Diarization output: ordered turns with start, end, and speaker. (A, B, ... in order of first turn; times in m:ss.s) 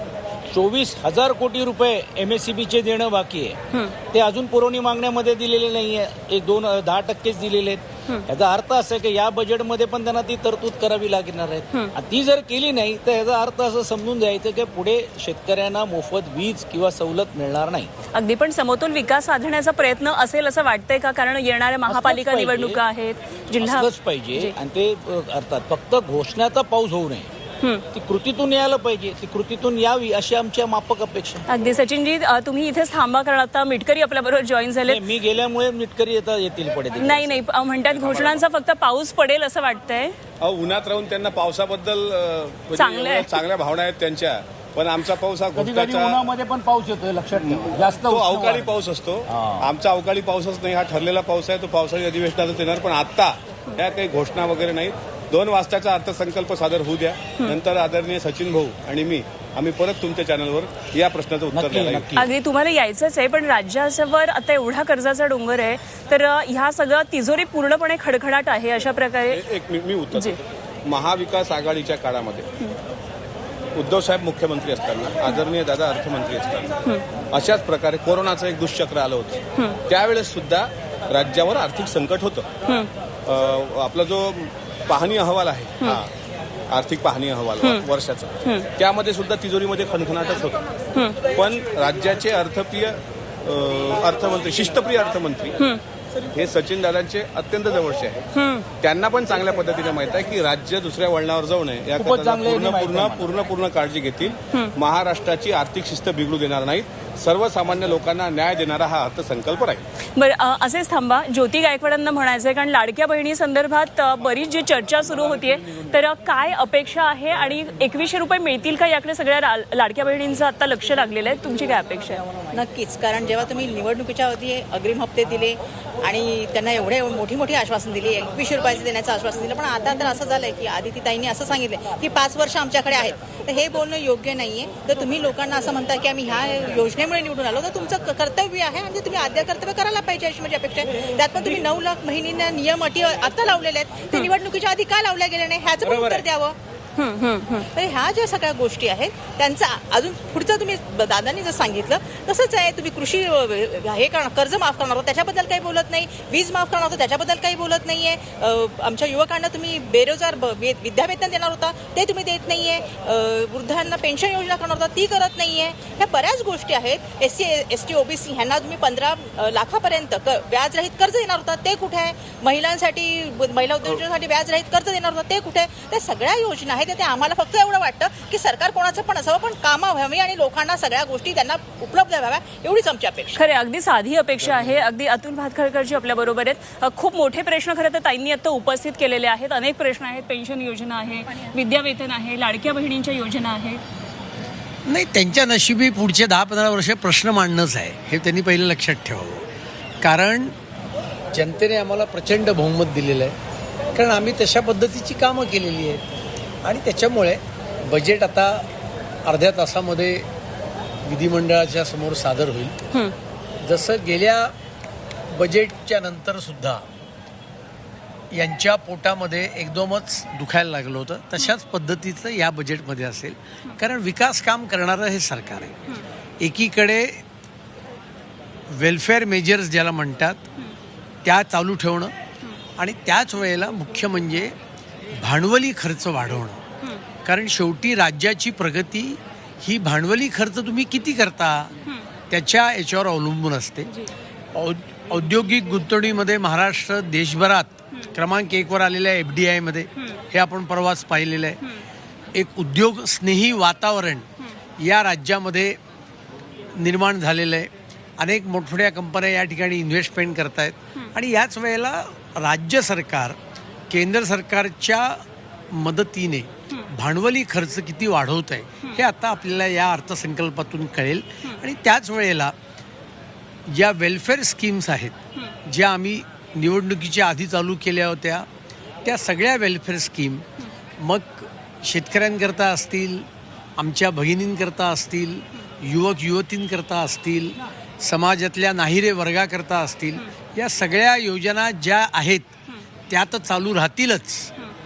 0:00.5-0:03.6 A
0:03.7-0:04.0 B
0:04.1-0:17.9 A
0:18.1-0:24.5 B
0:21.9-0:22.8 A
0:23.6-0:27.3 A
0:27.9-0:31.4 A
0:31.5-0:35.0 B
0:34.8-0:37.4 A
0:36.9-0:40.1 B
0:37.9-0:38.4 C
0:40.4-0:46.2 C
0:42.7-0:43.4 B
0:45.5-0:48.8 A
0:47.3-1:02.1 C
0:49.3-0:49.7 A
1:01.5-1:02.3 A
1:02.2-1:09.4 B
1:09.3-1:10.4 C
1:10.9-1:12.5 C
1:13.8-1:16.7 C
1:17.3-1:22.4 C
1:23.3-1:26.0 C
1:26.7-1:30.6 C
1:28.4-1:28.7 B
1:31.3-1:35.6 C
1:36.3-1:38.2 C
1:38.3-1:38.7 B
1:38.8-1:49.8 C
1:41.9-1:43.3 A
1:50.2-2:02.2 B
2:02.5-2:26.5 D
2:27.0-2:27.6 B
2:27.7-3:03.4 D
3:03.3-3:13.8 B
3:14.9-3:19.4 E
3:20.0-3:20.5 E
3:21.3-3:23.3 E
3:23.9-3:26.0 E
3:26.6-3:28.6 E
3:29.2-3:30.3 E
3:31.0-3:32.7 E
3:33.6-3:34.5 E
3:35.3-3:36.8 E
3:38.3-3:45.7 E
3:46.4-3:47.2 E
3:48.7-3:50.4 E
3:51.2-3:52.1 E
3:52.8-3:54.5 E
3:55.2-3:56.6 E
3:57.2-4:01.7 E
4:02.3-4:03.9 E
4:04.5-4:11.6 E
4:12.4-4:14.2 E
4:14.8-4:15.8 E
4:16.8-4:23.4 E
4:23.9-4:32.5 E
4:33.7-4:35.1 E
4:35.6-4:38.5 E
4:39.0-4:40.4 E
4:41.0-4:43.2 E
4:43.8-4:52.5 E
4:53.1-4:54.5 E